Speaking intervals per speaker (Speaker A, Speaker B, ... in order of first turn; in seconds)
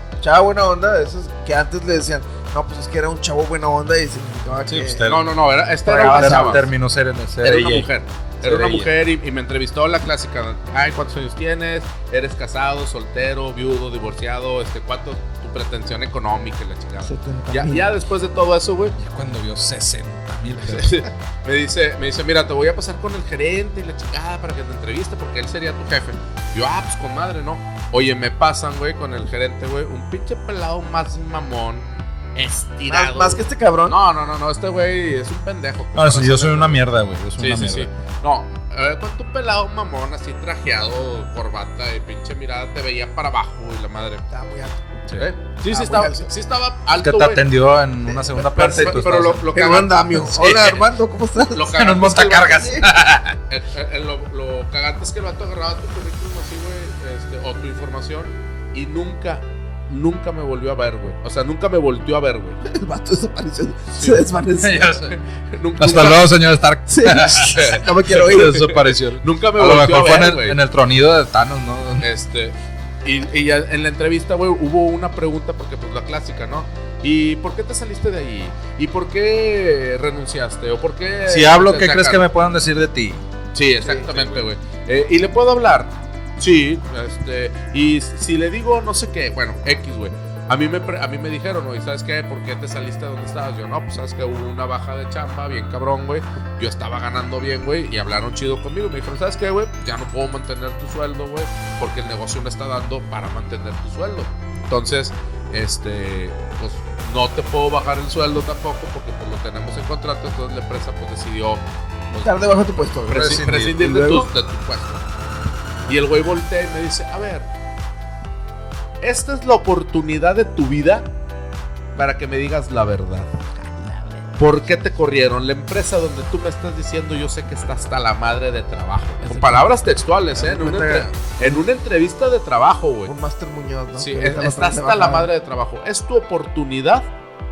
Speaker A: 0.2-5.1, 5.9-6.7, 17.1-17.9, 32.9-34.0, 44.3-44.8, 45.7-46.3, 48.1-49.0, 49.5-51.8, 52.4-52.9, 62.6-65.0, 66.9-68.7, 83.8-84.3, 112.2-114.3, 123.6-124.4, 129.2-129.7, 130.3-131.6, 133.1-135.3
Speaker B: 4.7-5.3, 6.0-7.9, 8.4-8.9, 19.0-21.0, 36.0-37.9, 47.0-49.5, 50.3-50.8, 51.7-53.4, 64.6-65.2, 65.8-72.1, 81.3-83.2, 113.1-113.8
Speaker C: 5.0-6.6, 7.4-19.0, 20.6-36.8, 37.4-44.2, 45.2-47.5, 48.5-50.8, 51.5-52.9, 53.5-62.6, 64.0-64.3, 65.2-66.3, 67.5-70.6, 72.0-82.2, 83.5-112.4, 113.0-115.0, 115.9-117.5, 119.0-121.1, 122.0-123.4, 124.4-133.1, 134.0-137.1